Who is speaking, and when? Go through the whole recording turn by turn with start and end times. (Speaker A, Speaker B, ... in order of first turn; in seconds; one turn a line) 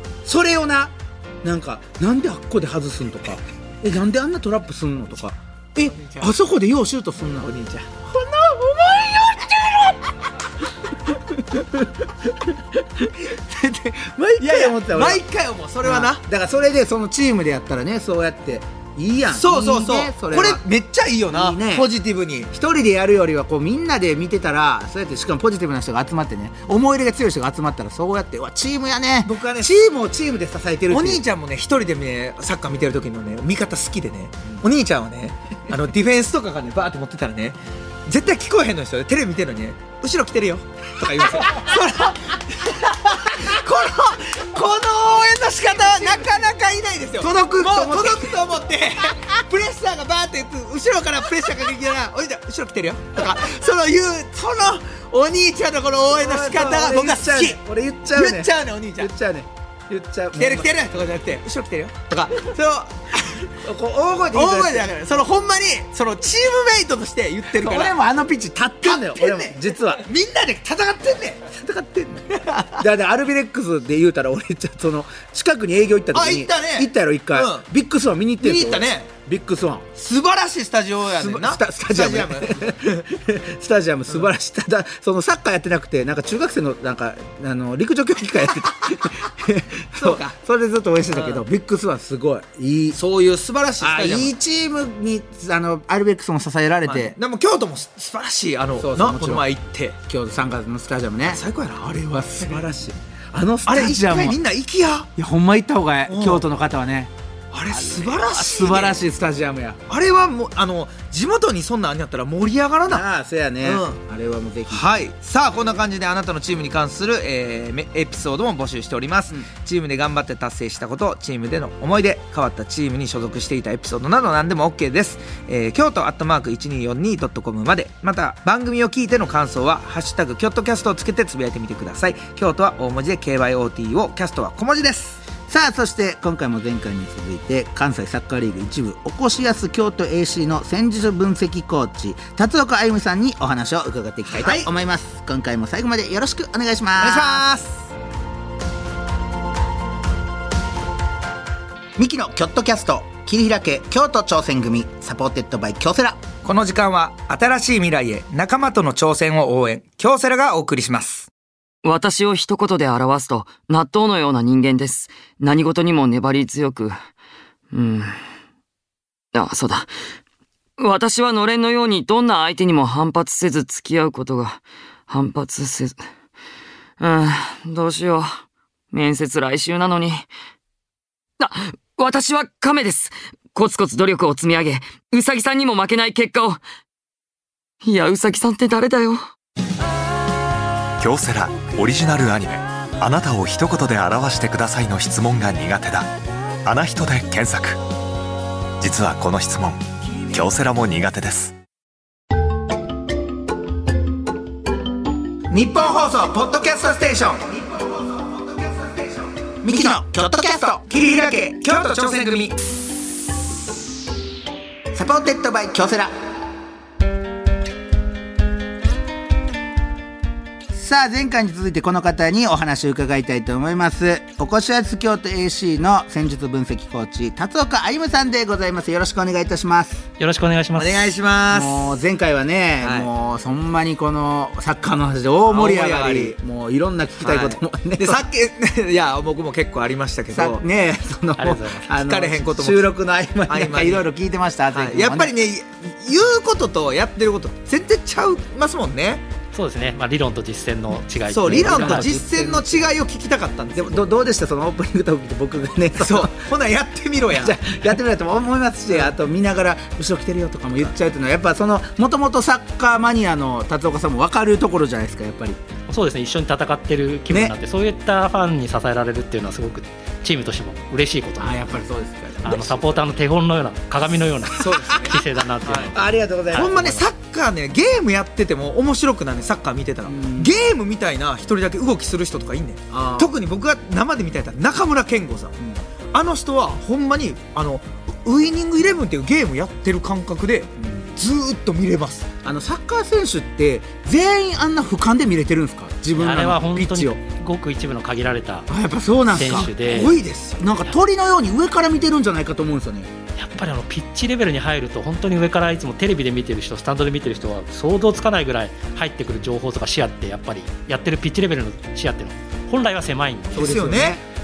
Speaker A: 0.2-7.5
Speaker B: 5.8-6.3
Speaker B: 7.4-7.9
Speaker A: 8.0-10.3
Speaker A: 10.9-15.2
Speaker B: 14.4-16.2
Speaker A: 15.8-20.6
Speaker B: 19.3-22.5
Speaker A: 21.3-21.9
Speaker A: 22.5-31.2
Speaker B: 29.2-29.7
Speaker B: 30.9-57.6
Speaker A: 41.5-42.1
Speaker A: 43.1-43.5
Speaker A: 45.6-46.4
Speaker A: 47.2-48.4
Speaker A: 49.0-49.3
Speaker A: 56.1-60.7
Speaker B: 58.1-59.1
Speaker B: 60.3-63.5
Speaker A: 63.6-64.9
Speaker B: 64.3-68.0
Speaker A: 67.5-70.0
Speaker B: 68.8-71.6
Speaker A: 71.5-79.9
Speaker B: 72.4-72.8
Speaker B: 76.1-77.7
Speaker B: 78.4-79.1
Speaker B: 80.0-83.0
Speaker A: 81.2-93.0
Speaker B: 89.9-90.3
Speaker B: 91.1-91.4
Speaker B: 92.9-94.3
Speaker A: 93.8-97.2
Speaker B: 96.8-100.0
Speaker A: 98.8-99.5
Speaker A: 100.0-104.4
Speaker B: 101.2-102.7
Speaker B: 103.7-105.1
Speaker A: 105.2-107.1
Speaker B: 106.1-106.4
Speaker B: 107.5-109.0
Speaker A: 107.7-109.8
Speaker B: 109.9-113.0
Speaker A: 112.8-115.0
Speaker B: 113.6-114.0
Speaker B: 114.7-135.2
Speaker A: 135.5-147.4
Speaker B: 144.3-144.7
Speaker B: 147.0-147.8
Speaker A: 151.9-156.2
Speaker B: 156.4-161.3
Speaker C: 161.8-167.0
Speaker C: 167.7-168.2
Speaker C: 169.3-169.9
Speaker C: 170.8-176.1
Speaker C: 177.0-178.4
Speaker C: 178.9-180.3
Speaker C: 181.4-186.6
Speaker C: 187.8-189.2
Speaker D: 191.0-196.1
Speaker D: 196.6-197.8
Speaker D: 198.8-201.6
Speaker A: 205.5-208.2
Speaker B: 206.3-207.0
Speaker A: 209.6-210.9
Speaker B: 210.9-212.6
Speaker A: 214.9-216.2
Speaker A: 220.7-230.0
Speaker E: 230.2-231.1
Speaker B: 230.8-231.9
Speaker A: 231.5-238.2
Speaker B: 232.8-233.1
Speaker B: 235.5-236.3
Speaker B: 237.2-240.6
Speaker A: 240.3-245.3
Speaker E: 241.4-241.9
Speaker B: 241.9-244.1
Speaker B: 244.7-249.2
Speaker E: 249.5-252.1
Speaker B: 251.3-254.2
Speaker A: 251.4-252.9
Speaker A: 253.7-256.4
Speaker B: 256.0-257.6
Speaker A: 257.3-265.6
Speaker E: 265.9-271.8
Speaker A: 267.3-267.5
Speaker A: 271.4-273.0
Speaker E: 272.4-277.0
Speaker B: 274.5-275.9
Speaker A: 275.9-276.9
Speaker B: 276.5-285.5
Speaker A: 280.1-280.5
Speaker A: 282.9-283.3
Speaker B: 286.1-292.3
Speaker A: 292.4-297.2
Speaker E: 296.1-298.7
Speaker A: 298.7-303.1
Speaker E: 299.3-300.1
Speaker B: 299.3-300.6
Speaker E: 303.4-313.8
Speaker B: 313.5-314.2
Speaker A: 313.5-314.2